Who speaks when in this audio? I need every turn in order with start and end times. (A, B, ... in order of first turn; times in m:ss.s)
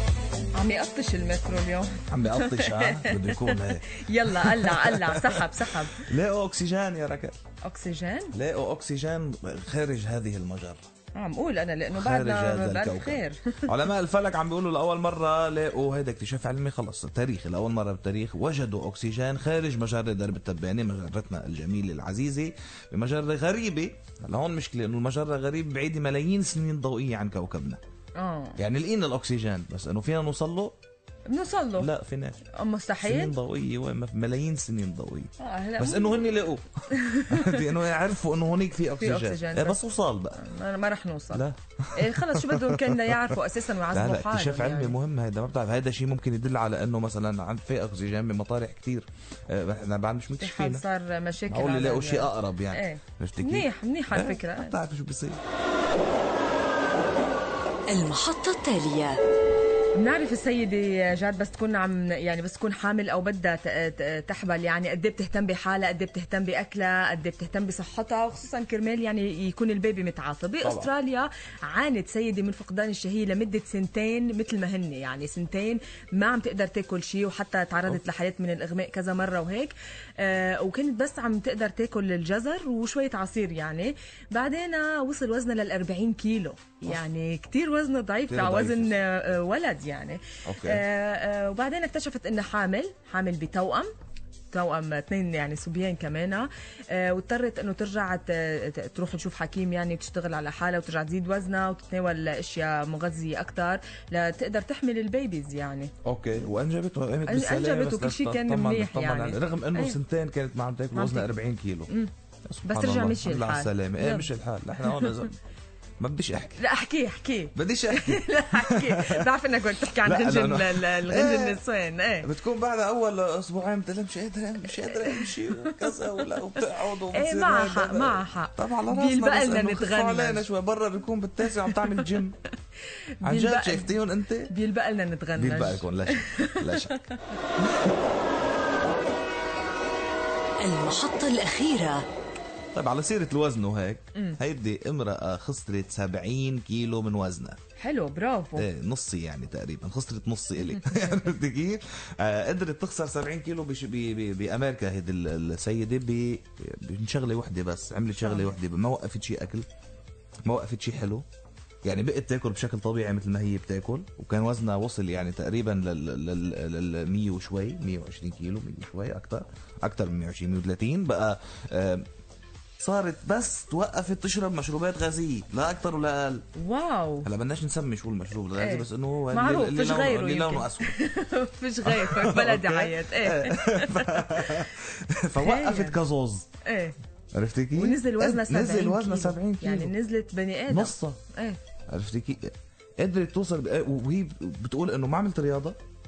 0:00.6-0:06.1 A
0:02.1-0:07.4 B
0:07.6-0:08.3 A
0:08.3-0:10.9 B
0:11.1-0:13.8 A
0:11.9-0:27.8 B
0:28.2-0:28.6 A
0:28.6-0:30.7 B
0:31.3-0:31.9 A
0:31.8-0:32.4 B
0:32.5-0:33.4 A
0:33.0-0:36.7 B
0:35.4-0:36.4 A
0:36.9-0:37.8 A
0:37.3-0:40.4 B
0:38.9-0:39.8 A
0:40.3-0:41.4 A
0:41.3-0:43.4 B
0:42.0-0:45.0 A
0:43.9-0:50.8 B
0:50.4-0:54.8 A
0:51.4-0:55.4 B
0:57.9-0:59.2 C
0:59.9-1:33.9 A
1:10.6-1:10.9 B
1:28.3-1:29.0 B
1:30.4-1:30.8 B
1:34.5-1:45.9 A
1:46.0-1:51.9 B
1:47.2-1:50.0 A
1:50.9-1:51.3 A
1:52.5-1:55.4 B
1:52.6-1:54.3 A
1:54.8-1:55.3 A
1:56.0-1:56.6 B
1:56.6-2:02.3 A
1:57.5-1:59.4 B
1:59.9-2:01.6 B
2:02.2-2:12.4 B
2:04.7-2:10.4 A
2:11.4-2:12.2 A
2:12.8-2:17.4 A
2:13.2-2:14.5 B
2:15.3-2:17.0 B
2:17.6-2:17.9 B
2:20.6-2:22.0 C
2:22.7-2:27.6 B
2:24.1-2:24.4 A
2:27.8-2:28.7 A
2:28.6-2:39.6 B
2:30.6-2:31.2 A
2:38.2-2:38.6 A
2:40.4-2:41.2 B
2:41.8-2:52.0 B
2:52.8-2:56.4 B
2:56.6-2:57.3 A
2:57.2-3:01.0 B
2:58.6-3:04.7 A
3:01.8-3:06.5 B
3:05.4-3:06.0 A
3:06.6-3:07.0 A
3:07.3-3:09.9 B
3:07.7-3:11.6 A
3:10.7-3:11.2 B
3:11.9-3:15.8 B